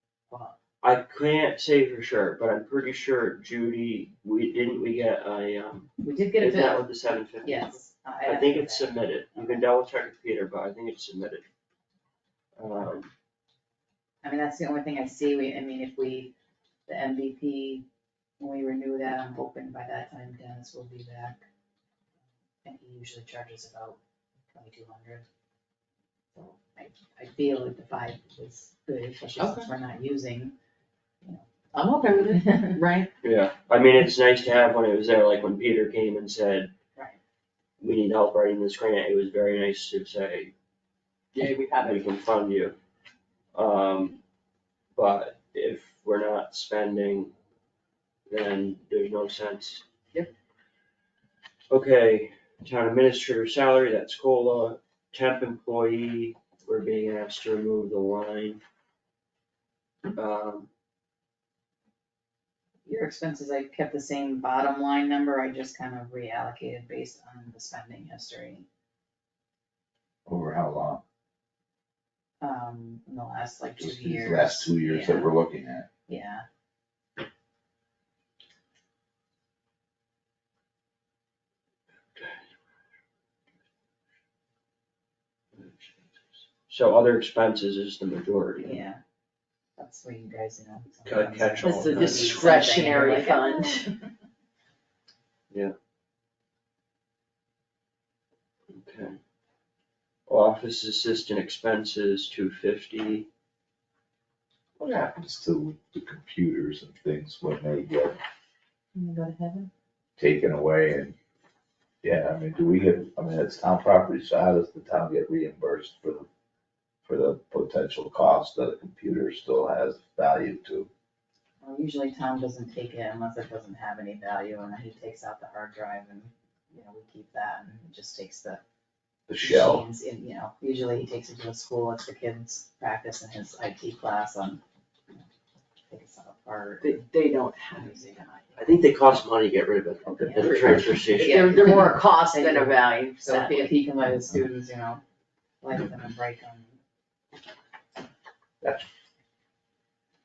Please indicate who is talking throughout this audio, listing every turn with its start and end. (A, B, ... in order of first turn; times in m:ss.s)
0:00.3-0:00.6 A
0:00.8-0:11.4 B
0:06.0-0:09.7 A
0:12.6-0:13.1 B
0:14.2-0:16.3 A
0:16.9-0:17.8 A
0:18.4-0:21.4 A
0:22.6-0:24.0 A
0:24.5-0:25.2 A
0:26.3-0:30.5 A
0:29.4-0:29.7 C
0:31.7-0:33.1 C
0:32.4-0:32.8 A
0:33.2-0:36.7 B
0:37.8-0:40.5 B
0:41.3-0:42.1 C
0:41.8-0:42.8 B
0:43.5-0:44.2 B
0:44.9-0:47.3 B
0:48.3-0:49.8 B
0:51.7-0:58.6 B
1:00.1-1:00.7 B
1:02.8-1:08.7 A
1:10.2-1:11.0 D
1:12.4-1:15.4 A
1:13.8-1:15.9 D
1:16.1-1:16.4 A
1:22.2-1:22.5 B
1:25.5-1:28.8 B
1:28.6-1:29.0 A
1:29.8-1:34.1 A
1:31.0-1:32.6 B
1:31.6-1:33.9 C
1:38.7-1:39.2 B
1:40.3-1:43.3 B
1:44.8-1:48.2 D
1:48.9-1:49.7 A
1:50.2-1:51.2 D
1:52.0-1:56.3 D
1:57.0-2:00.9 D
2:01.6-2:08.6 A
2:09.3-2:09.8 D
2:09.4-2:14.6 A
2:15.9-2:17.0 A
2:16.8-2:18.0 C
2:17.7-2:18.6 A
2:18.6-2:21.7 B
2:20.1-2:25.0 A
2:20.2-2:20.5 D
2:20.7-2:23.7 C
2:25.6-2:26.8 A